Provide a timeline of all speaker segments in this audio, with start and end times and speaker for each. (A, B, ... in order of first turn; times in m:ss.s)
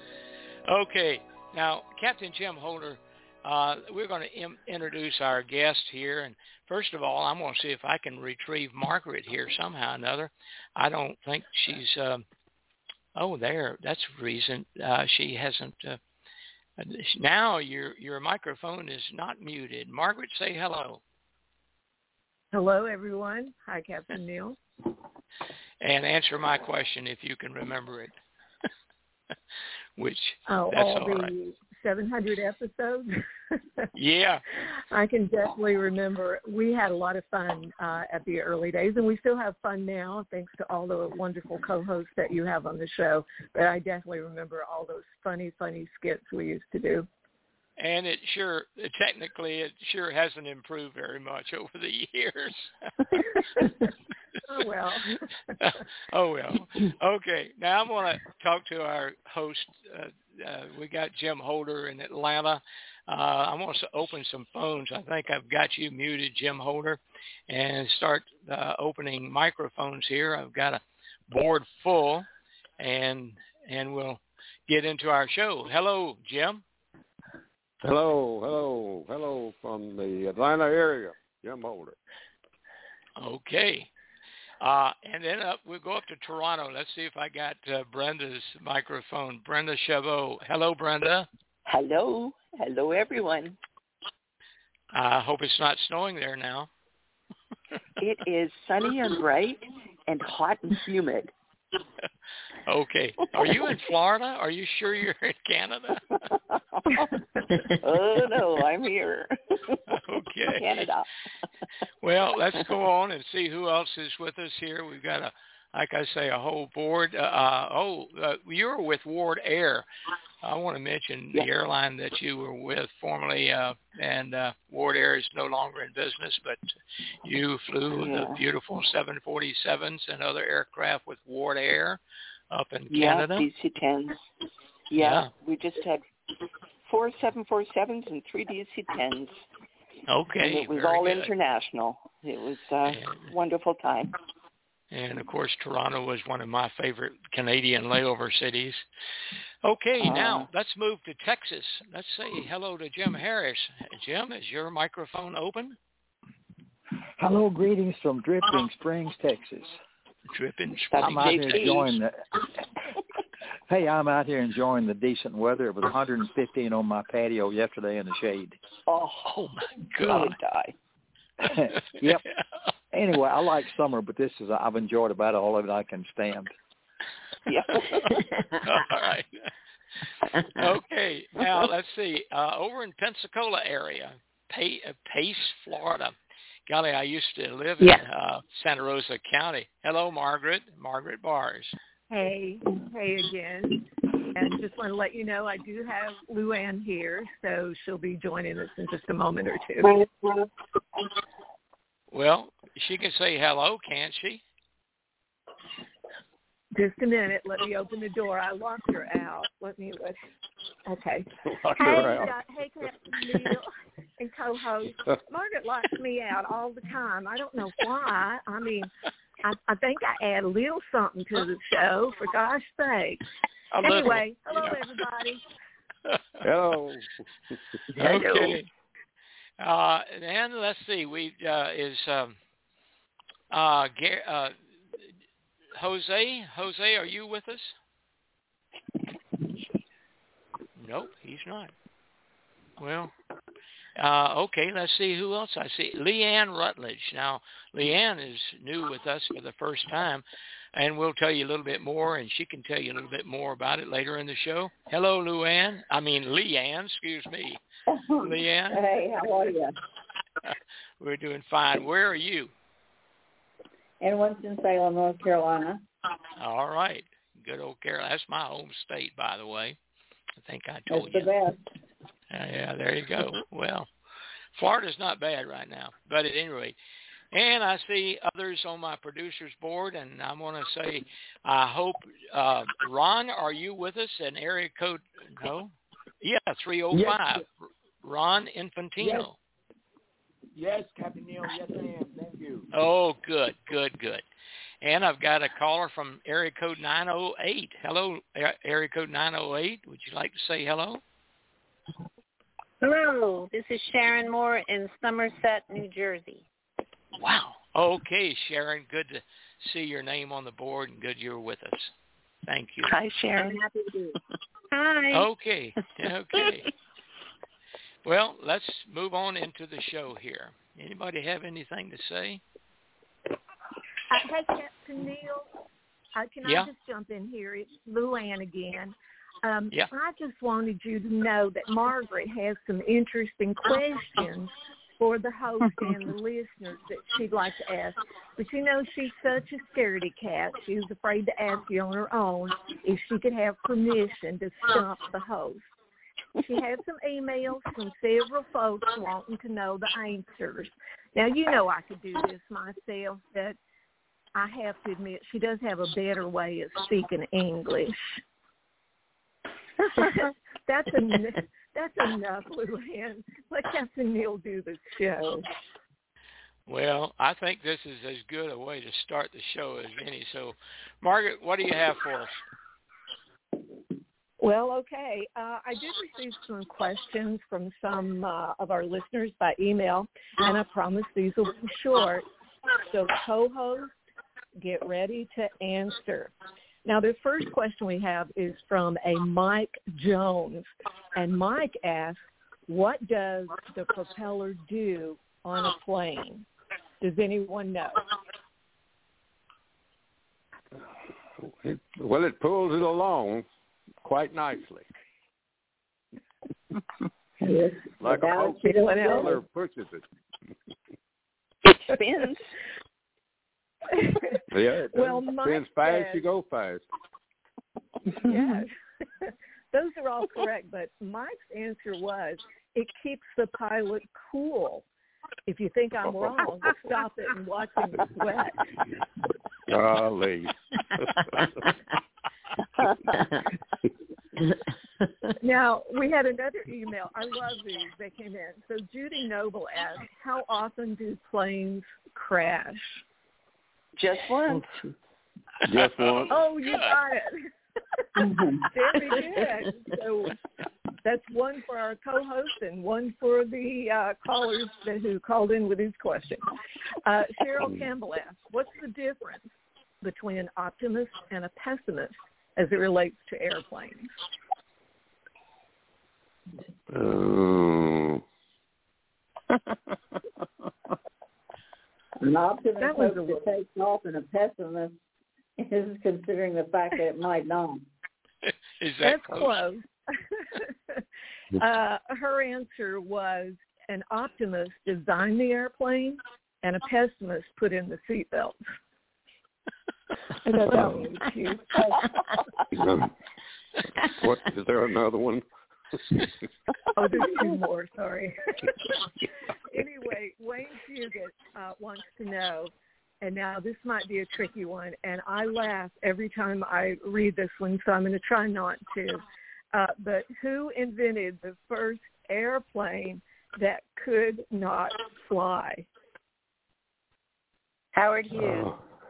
0:00.7-0:12.2 A
0:13.2-0:16.0 A
0:16.8-0:21.0 A
0:22.5-0:24.6 B
0:25.8-0:28.1 A
0:30.0-0:31.3 A
0:30.5-0:33.2 B
0:33.9-0:34.4 A
0:34.9-0:47.1 B
0:47.8-0:52.7 A
0:54.4-0:55.2 B
0:55.6-1:12.3 A
1:12.8-1:16.6 A
1:17.8-1:22.0 C
1:23.2-1:23.9 A
1:24.6-1:31.3 A
1:31.6-1:33.6 D
1:34.9-1:36.7 A
1:38.0-1:41.3 D
1:42.6-1:46.2 A
1:47.7-1:49.8 D
1:49.9-1:50.6 A
1:50.5-1:51.0 D
1:52.0-1:59.8 A
2:00.4-2:06.6 A
2:07.2-2:12.0 A
2:08.0-2:08.4 D
2:12.5-2:13.4 A
2:12.9-2:14.2 D
2:14.9-2:16.0 D
2:15.0-2:15.3 A
2:16.9-2:19.4 D
2:20.1-2:21.3 A
2:20.4-2:24.1 D
2:22.9-2:23.3 A
2:24.9-2:28.8 A
2:29.6-2:35.8 A
2:30.0-2:30.5 D
2:37.2-2:39.8 E
2:40.3-2:41.7 A
2:40.9-2:42.0 D
2:41.0-2:42.3 E
2:43.7-2:48.6 E
2:48.9-2:49.4 D
2:49.4-2:50.4 A
2:50.0-2:50.7 D
2:51.4-2:52.2 E
2:52.9-2:56.5 E
2:57.5-2:58.2 D
2:57.8-2:59.3 A
3:00.5-3:06.1 A
3:06.7-3:11.7 A
3:12.1-3:13.8 B
3:14.3-3:20.0 B
3:22.1-3:24.4 A
3:26.7-3:30.2 B
3:30.8-3:38.9 B
3:31.5-3:32.3 C
3:39.4-3:43.2 B
3:43.8-3:45.4 B
3:46.4-3:47.1 C
3:48.0-3:48.6 D
3:48.0-3:48.7 A
3:49.6-3:52.4 A
3:53.5-3:54.5 A
3:55.8-3:57.7 A
4:00.8-4:01.7 A
4:02.8-4:03.1 A
4:04.0-4:17.6 A
4:18.0-4:19.7 F
4:18.2-4:18.8 A
4:20.4-4:22.5 A
4:24.0-4:25.8 F
4:26.4-4:29.8 A
4:30.4-4:31.3 A
4:30.9-4:31.6 F
4:32.3-4:33.9 A
4:34.5-4:36.8 A
4:37.3-4:47.4 A
4:46.9-4:47.4 G
4:48.0-4:49.3 A
4:49.0-4:49.3 G
4:50.5-4:52.6 G
4:52.7-4:54.2 A
4:54.8-5:01.0 A
5:02.8-5:06.4 H
5:07.2-5:11.9 A
5:12.5-5:12.9 A
5:12.8-5:13.6 D
5:13.4-5:14.1 H
5:14.7-5:15.3 H
5:15.1-5:16.7 A
5:18.0-5:22.4 A
5:24.1-5:25.5 B
5:26.1-5:45.6 B
5:26.4-5:26.7 A
5:46.4-5:53.6 B
5:54.4-5:58.2 B
6:00.0-6:05.4 B
6:06.7-6:12.3 A
6:14.4-6:22.2 B
6:22.9-6:23.9 B
6:24.6-6:26.3 B
6:26.8-6:36.4 B
6:37.0-6:38.0 B
6:41.6-6:43.4 C
6:44.0-6:44.8 C
6:47.4-6:49.4 F
6:48.0-6:50.0 C
6:48.6-6:49.3 B
6:51.9-6:52.5 D
6:53.9-6:54.4 B
6:54.5-6:56.8 C
6:54.9-6:56.2 B
6:58.2-6:58.7 B
6:59.2-7:04.8 B
7:05.5-7:08.6 B
7:09.7-7:11.5 C
7:15.4-7:23.0 B
7:24.0-7:24.6 D
7:25.6-7:26.4 C
7:25.7-7:27.0 A
7:26.3-7:27.4 B
7:28.2-7:28.6 F
7:28.7-7:30.4 B
7:31.0-7:36.4 B
7:37.0-7:39.5 B
7:40.0-7:44.1 B
7:46.9-7:48.2 C
7:52.2-7:55.0 F
7:52.8-7:53.5 B
7:55.6-7:57.8 F
7:58.4-7:59.6 A
7:59.0-8:01.0 B
8:01.5-8:08.6 B
8:10.4-8:12.0 B
8:12.8-8:13.1 C
8:14.0-8:15.4 C
8:17.0-8:18.8 B
8:19.7-8:35.8 B
8:37.9-8:38.8 H